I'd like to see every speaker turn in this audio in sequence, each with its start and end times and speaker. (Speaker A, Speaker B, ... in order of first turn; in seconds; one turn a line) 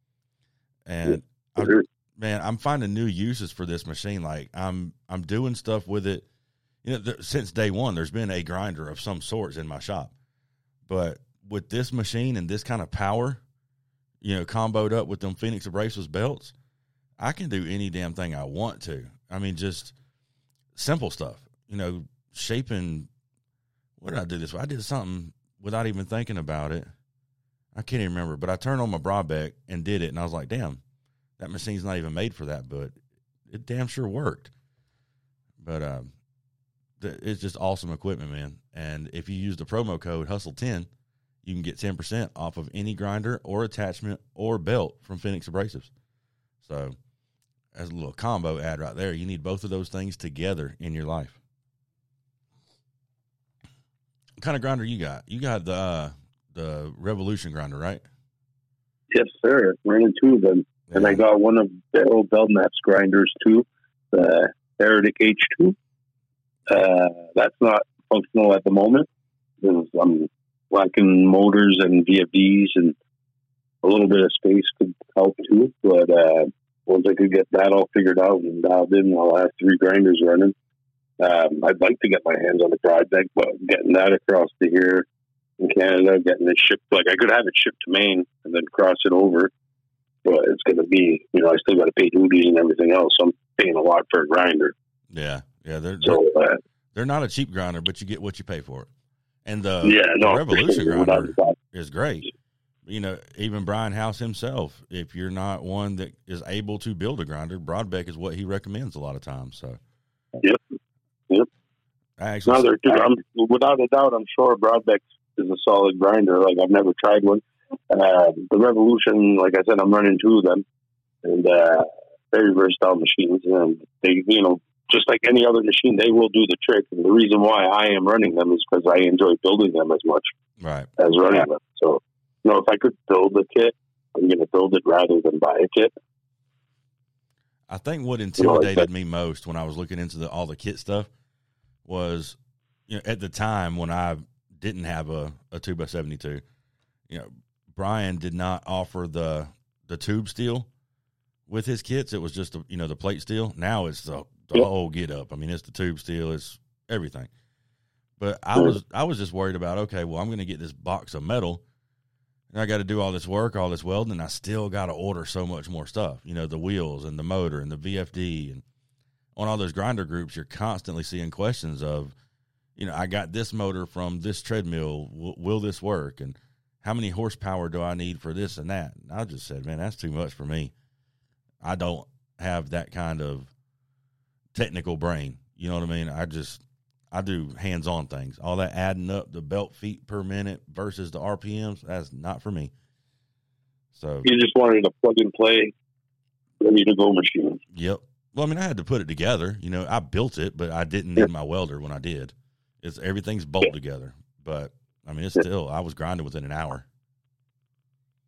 Speaker A: 0.9-6.2
Speaker B: 1.1-1.9
Speaker A: 6.8-10.1
Speaker A: 10.9-13.4
Speaker A: 14.2-16.5
Speaker A: 17.2-19.9
Speaker A: 20.8-23.1
Speaker A: 24.0-26.9
Speaker A: 27.8-30.8
Speaker A: 31.4-32.9
Speaker A: 33.5-34.5
Speaker A: 35.6-36.1
Speaker A: 37.0-40.9
Speaker A: 41.4-45.9
Speaker A: 46.6-47.0
Speaker A: 47.7-51.4
Speaker A: 54.4-58.0
Speaker B: 59.1-65.8
Speaker A: 60.9-61.2
Speaker B: 66.7-69.1
Speaker B: 69.6-73.0
Speaker B: 73.8-80.5
Speaker B: 81.2-85.1
Speaker B: 85.6-89.5
Speaker B: 90.2-94.8
Speaker A: 95.1-96.2
Speaker B: 96.0-96.6
Speaker A: 96.9-98.9
Speaker A: 99.5-102.3
Speaker B: 99.8-101.6
Speaker A: 102.9-109.8
Speaker A: 112.2-112.9
Speaker B: 112.5-120.7
Speaker B: 121.2-130.3
Speaker A: 130.6-131.4
Speaker B: 131.0-135.9
Speaker A: 137.7-141.1
Speaker B: 138.4-138.8
Speaker A: 141.8-142.4
Speaker A: 142.9-146.4
Speaker A: 147.1-150.7
Speaker A: 151.5-157.3
Speaker A: 158.2-161.6
Speaker A: 162.5-168.6
Speaker A: 169.4-172.1
Speaker A: 172.8-180.7
Speaker A: 181.6-183.5
Speaker A: 184.5-192.7
Speaker A: 193.9-194.3
Speaker B: 194.2-195.7
Speaker B: 196.6-197.6
Speaker A: 197.7-206.9